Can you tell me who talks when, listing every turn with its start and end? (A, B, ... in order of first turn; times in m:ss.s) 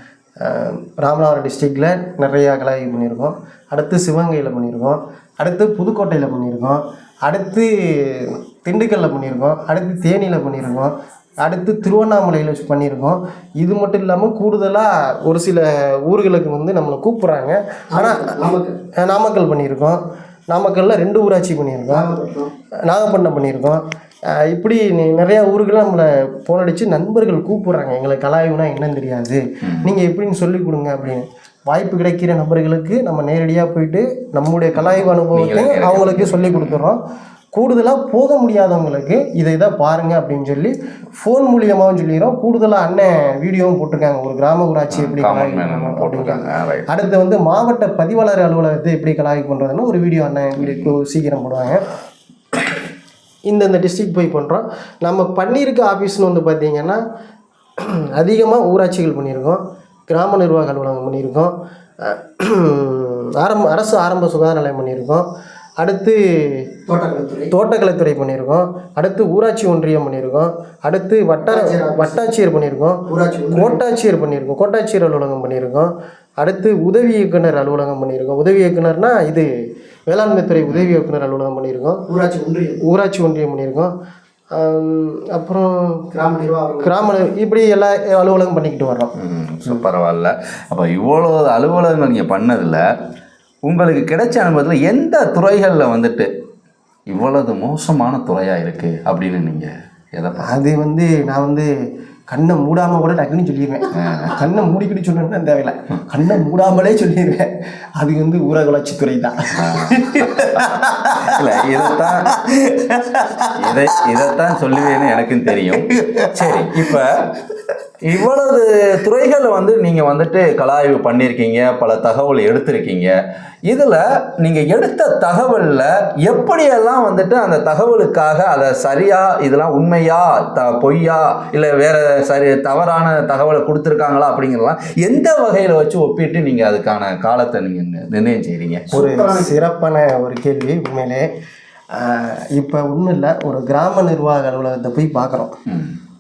0:00.4-0:18.4 A
0:17.9-0:18.7 B
0:18.9-0:22.1 A
0:21.9-0:22.5 B
0:22.9-0:37.0 A
0:29.6-0:29.9 C
0:34.8-0:36.8 C
0:37.5-0:51.8 A
0:44.9-0:46.9 C
0:50.6-0:50.9 C
0:52.5-0:52.8 A
0:53.5-0:57.0 A
0:57.8-1:05.2 A
1:05.8-1:06.6 A
1:06.9-1:07.5 B
1:07.5-1:19.5 A
1:11.5-1:12.2 B
1:13.1-1:13.8 B
1:20.1-1:22.0 A
1:22.1-1:22.8 B
1:22.8-1:23.9 A
1:24.5-1:26.1 A
1:26.1-1:27.0 B
1:26.8-1:29.1 A
1:29.2-1:32.8 C
1:33.6-1:36.3 C
1:37.1-1:40.5 C
1:40.4-1:41.7 A
1:42.3-1:57.0 A
1:43.9-1:44.4 C
1:49.6-1:52.3 C
1:53.5-1:57.3 C
1:58.0-2:03.2 C
2:03.7-2:19.0 C
2:18.9-2:19.6 B
2:18.9-2:21.3 A
2:21.9-2:25.5 A
2:25.7-2:25.9 C